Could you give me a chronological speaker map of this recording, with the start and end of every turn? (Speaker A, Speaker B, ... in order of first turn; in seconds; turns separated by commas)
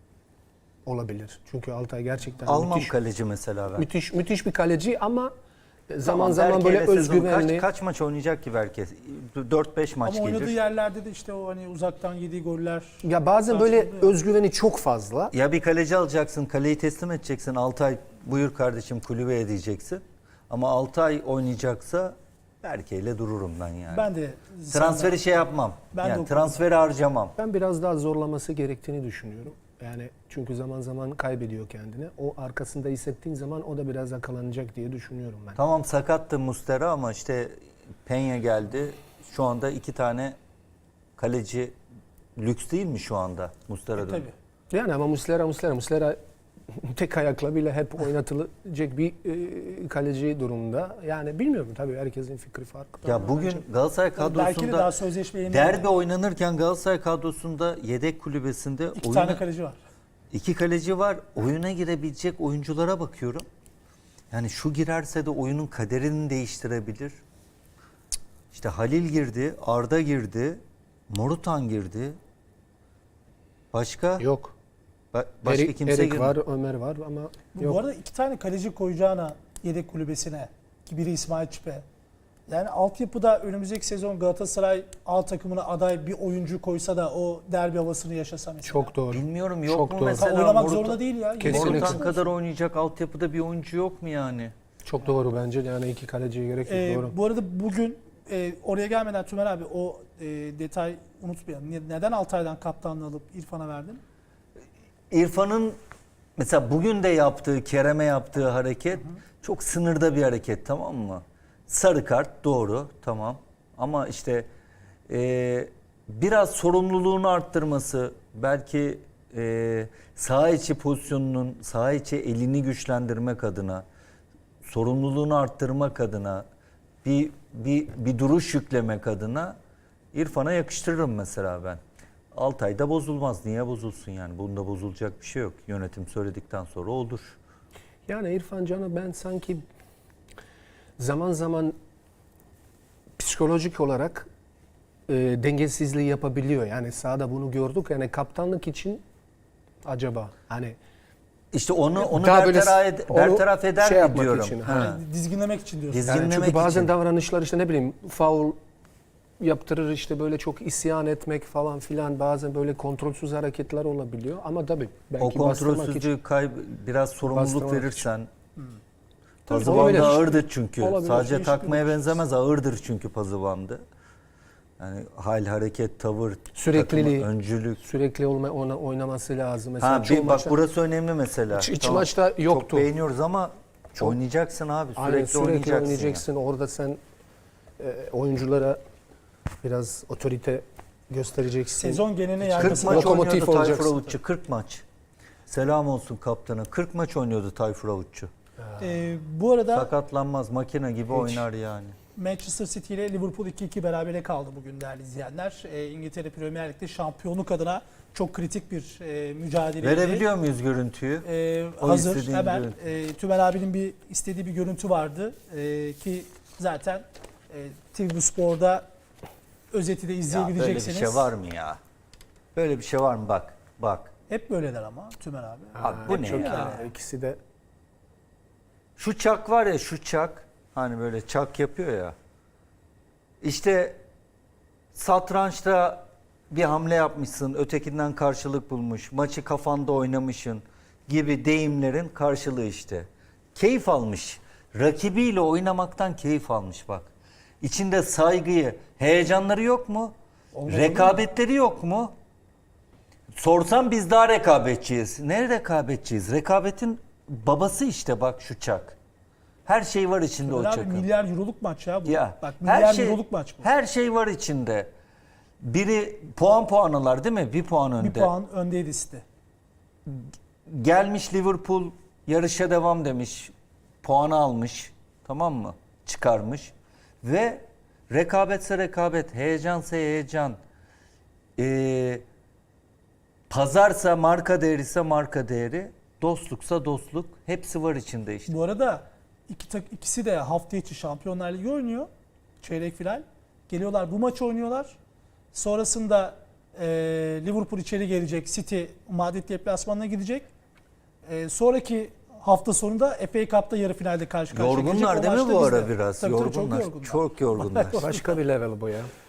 Speaker A: 0.8-2.9, Speaker B: 2.5-3.9, Speaker A: 3.8-5.3, Speaker A: 5.9-7.7, Speaker B: 6.0-10.5, Speaker C: 10.0-14.1, Speaker A: 13.0-15.3, Speaker B: 15.3-24.1, Speaker C: 23.9-25.2, Speaker B: 24.7-27.3, Speaker C: 25.9-26.6, Speaker A: 27.4-35.6, Speaker B: 35.6-40.4, Speaker B: 41.2-41.7, Speaker B: 42.4-44.3, Speaker C: 44.0-44.3, Speaker A: 44.7-53.0, Speaker C: 53.0-53.6, Speaker B: 53.0-54.9, Speaker C: 54.1-55.9, Speaker B: 55.5-59.4, Speaker C: 58.9-59.8, Speaker B: 60.3-63.5, Speaker B: 64.3-67.2, Speaker B: 68.5-72.2, Speaker B: 73.7-74.2, Speaker A: 74.2-74.5, Speaker B: 75.1-76.4, Speaker A: 75.4-77.8, Speaker C: 77.5-81.8, Speaker C: 82.5-88.9, Speaker A: 88.6-90.3, Speaker B: 89.1-94.5, Speaker C: 90.2-92.2, Speaker A: 91.4-92.1, Speaker A: 94.8-97.1, Speaker C: 96.7-104.0, Speaker B: 105.1-105.8, Speaker B: 106.4-114.5, Speaker B: 115.1-123.8, Speaker B: 124.6-126.4, Speaker B: 127.0-129.6, Speaker B: 130.1-131.8, Speaker B: 132.3-137.4, Speaker A: 138.1-139.6, Speaker A: 141.0-141.8, Speaker A: 143.2-144.3, Speaker A: 145.1-149.0, Speaker A: 149.8-150.8, Speaker B: 151.5-155.0, Speaker A: 152.0-154.8, Speaker C: 154.7-156.3, Speaker B: 155.9-156.9, Speaker A: 156.0-158.6, Speaker A: 159.4-166.1, Speaker B: 165.2-168.3, Speaker A: 167.3-168.1, Speaker C: 169.5-170.3, Speaker B: 169.5-173.8, Speaker A: 169.5-171.7, Speaker C: 171.0-172.2, Speaker B: 174.8-177.8, Speaker A: 176.5-180.6, Speaker B: 179.8-186.2, Speaker A: 181.5-182.9, Speaker A: 184.9-187.0, Speaker A: 187.8-188.8, Speaker A: 189.6-193.9, Speaker C: 191.8-194.1, Speaker B: 192.5-194.8, Speaker B: 195.5-198.3, Speaker A: 198.6-199.0, Speaker C: 198.8-199.9, Speaker B: 199.7-201.9, Speaker A: 201.1-201.4, Speaker C: 202.2-210.2, Speaker B: 209.8-211.3, Speaker C: 211.2-218.8, Speaker B: 211.8-212.7, Speaker C: 219.7-221.3, Speaker B: 220.3-221.8, Speaker B: 222.5-224.1, Speaker C: 224.3-226.9, Speaker A: 225.8-227.4, Speaker B: 225.8-226.8, Speaker B: 229.0-232.1, Speaker B: 233.4-234.0, Speaker B: 234.9-247.1, Speaker B: 247.6-250.1, Speaker C: 250.5-251.2, Speaker B: 250.7-252.1, Speaker B: 253.4-258.9, Speaker B: 259.6-261.1, Speaker C: 260.4-263.7, Speaker B: 262.1-264.9, Speaker B: 265.6-268.3, Speaker C: 268.0-269.2, Speaker B: 270.1-280.6, Speaker B: 281.6-282.2, Speaker B: 283.5-288.5, Speaker C: 288.5-292.1, Speaker C: 292.6-295.0, Speaker C: 295.5-300.5, Speaker C: 301.2-308.3, Speaker B: 304.5-308.0, Speaker A: 308.0-309.1